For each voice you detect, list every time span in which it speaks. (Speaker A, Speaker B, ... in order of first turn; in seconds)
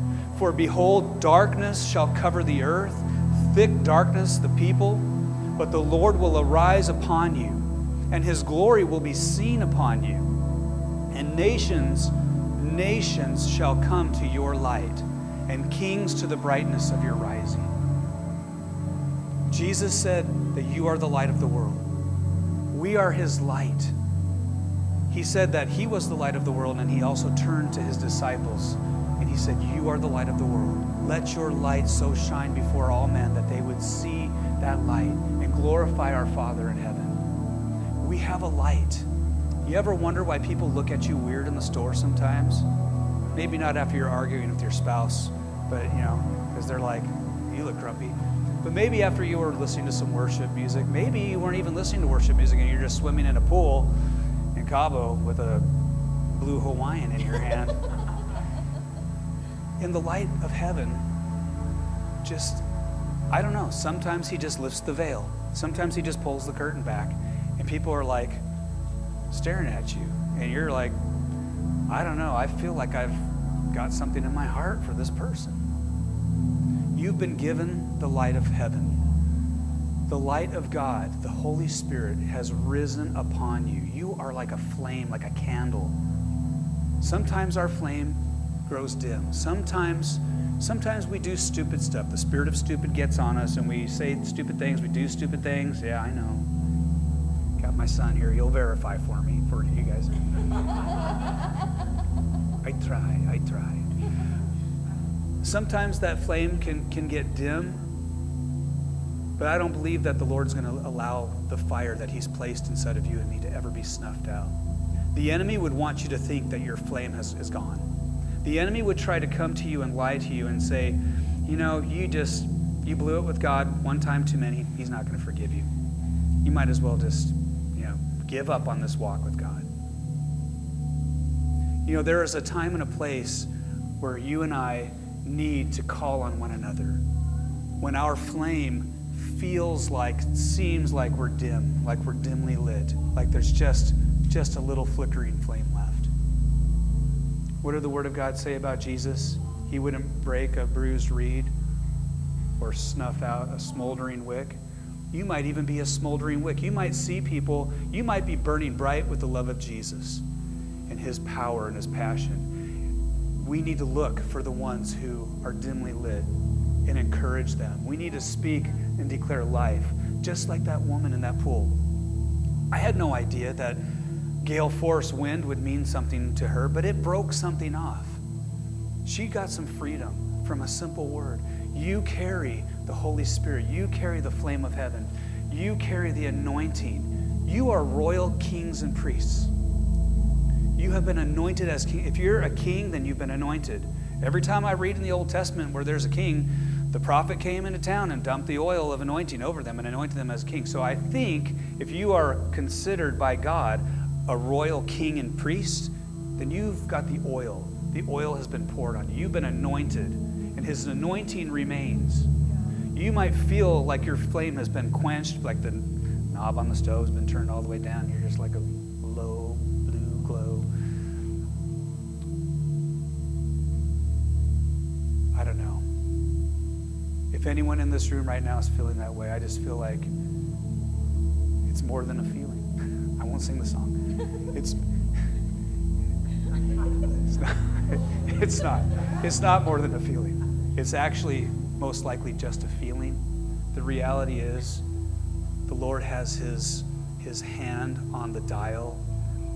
Speaker A: 0.3-10.3, 11.1-17.7, 19.5-21.9, 22.7-23.9, 25.1-37.2, 38.0-39.1, 39.6-42.7, 43.3-53.9, 54.5-55.7, 56.3-57.8, 59.8-61.1, 62.2-62.6, 63.3-68.4, 69.3-71.0, 71.9-75.6, 76.9-79.0, 80.1-85.9, 87.0-96.5, 97.6-100.1, 102.6-103.9, 105.4-107.8, 109.4-114.5, 115.1-117.8, 118.4-125.7, 126.4-129.7, 131.8-137.0, 137.8-146.1, 147.6-151.5, 152.6-154.6, 155.1-160.2, 160.9-162.5, 163.4-166.3, 166.8-171.8, 172.7-173.8, 174.4-178.2, 179.0-189.5, 190.8-212.3, 212.9-220.7, 225.3-225.8, 227.3-230.1, 231.7-233.9, 234.5-234.8, 237.2-243.2, 243.7-244.8, 245.7-249.0